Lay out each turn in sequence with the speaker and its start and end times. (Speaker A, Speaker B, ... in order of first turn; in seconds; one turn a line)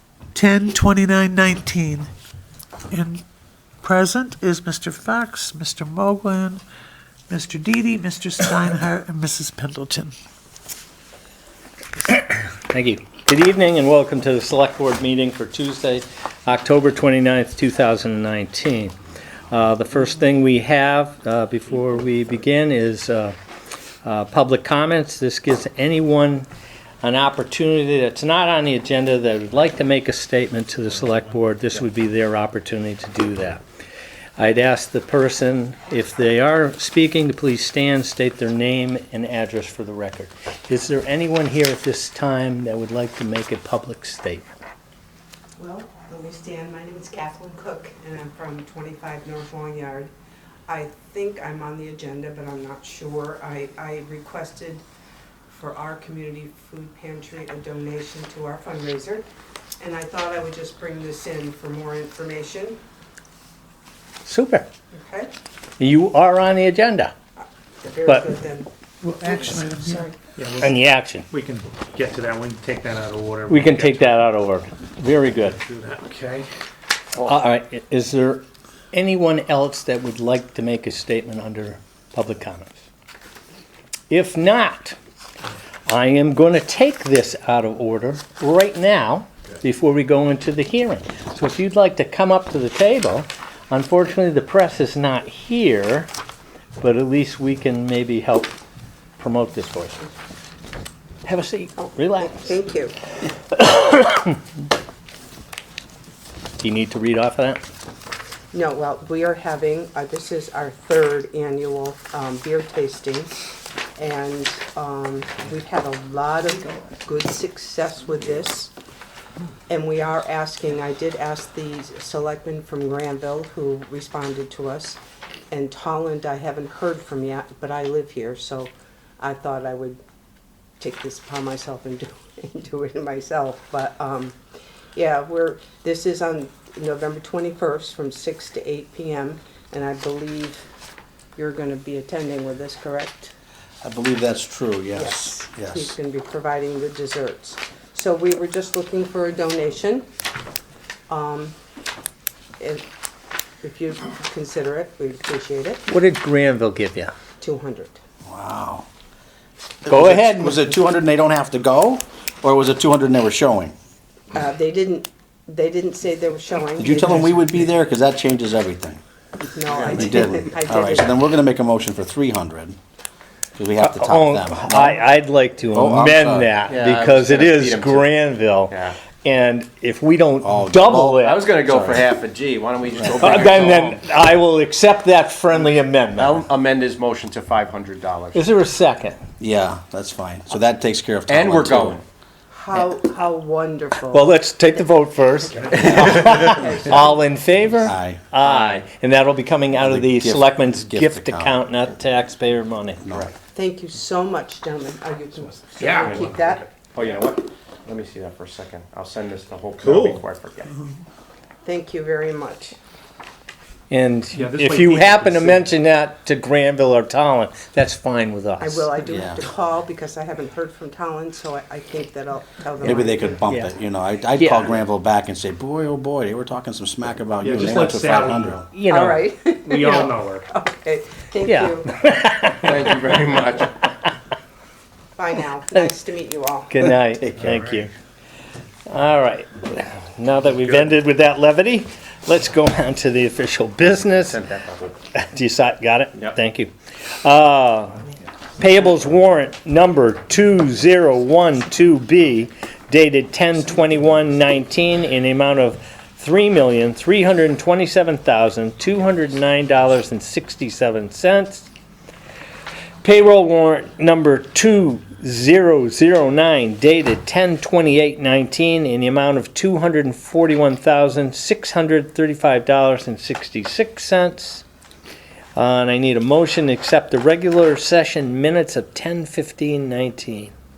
Speaker A: 0.3-2.1
Speaker A: 2.9-3.2
Speaker A: 3.8-6.6
Speaker A: 7.3-10.2
Speaker B: 12.1-19.0
Speaker B: 19.5-23.4
Speaker B: 24.0-26.5
Speaker B: 27.0-33.6
Speaker B: 34.4-44.5
Speaker C: 45.6-50.1
Speaker C: 50.7-54.8
Speaker C: 55.5-59.2
Speaker C: 59.8-62.8
Speaker B: 64.2-64.7
Speaker C: 64.9-65.3
Speaker B: 65.8-67.1
Speaker C: 67.8-68.7
Speaker A: 69.0-70.1
Speaker C: 69.2-70.2
Speaker D: 70.4-70.8
Speaker B: 70.6-71.3
Speaker D: 71.3-74.2
Speaker B: 73.5-75.6
Speaker D: 75.6-76.5
Speaker B: 77.2-82.8
Speaker B: 84.1-85.0
Speaker B: 85.9-96.1
Speaker B: 96.8-98.6
Speaker B: 99.2-100.0
Speaker B: 101.2-102.5
Speaker C: 102.2-103.0
Speaker B: 103.5-104.4
Speaker B: 106.6-107.6
Speaker C: 108.5-113.4
Speaker C: 114.0-118.7
Speaker C: 119.7-125.0
Speaker C: 125.5-130.0
Speaker C: 130.8-134.4
Speaker C: 134.9-140.6
Speaker C: 141.4-143.3
Speaker E: 143.8-145.9
Speaker C: 144.9-150.1
Speaker C: 151.1-151.6
Speaker C: 153.6-155.8
Speaker B: 155.9-157.1
Speaker C: 157.4-158.0
Speaker E: 158.3-158.9
Speaker E: 159.8-163.7
Speaker B: 159.9-160.7
Speaker C: 164.3-167.4
Speaker E: 166.8-169.0
Speaker C: 169.4-171.2
Speaker F: 169.7-170.2
Speaker E: 169.9-172.8
Speaker E: 173.6-175.0
Speaker B: 173.8-181.5
Speaker E: 175.7-176.5
Speaker F: 176.7-178.2
Speaker F: 178.7-179.0
Speaker E: 180.4-182.1
Speaker F: 181.2-184.0
Speaker E: 183.0-183.7
Speaker B: 183.2-186.4
Speaker F: 186.2-188.4
Speaker B: 188.3-189.2
Speaker E: 189.4-192.0
Speaker F: 191.3-192.0
Speaker C: 192.5-194.3
Speaker B: 194.1-203.0
Speaker D: 195.6-197.1
Speaker C: 195.7-197.2
Speaker E: 197.8-198.2
Speaker F: 198.4-198.8
Speaker E: 199.7-201.6
Speaker E: 203.0-203.3
Speaker C: 203.5-206.7
Speaker D: 205.8-206.6
Speaker F: 205.9-206.3
Speaker F: 206.9-210.7
Speaker D: 209.8-210.2
Speaker C: 211.6-212.8
Speaker B: 213.9-218.9
Speaker D: 214.3-215.7
Speaker C: 218.6-223.4
Speaker E: 219.1-219.4
Speaker E: 222.8-228.6
Speaker B: 223.4-223.7
Speaker B: 224.4-224.8
Speaker D: 227.4-228.6
Speaker B: 228.7-229.2
Speaker C: 228.8-231.9
Speaker D: 229.7-230.5
Speaker B: 231.4-232.8
Speaker F: 232.6-233.7
Speaker C: 235.2-236.9
Speaker B: 236.7-237.9
Speaker D: 237.4-237.9
Speaker B: 238.9-244.4
Speaker F: 244.3-244.9
Speaker B: 245.1-248.0
Speaker B: 248.6-261.7
Speaker B: 263.0-274.6
Speaker B: 275.6-280.5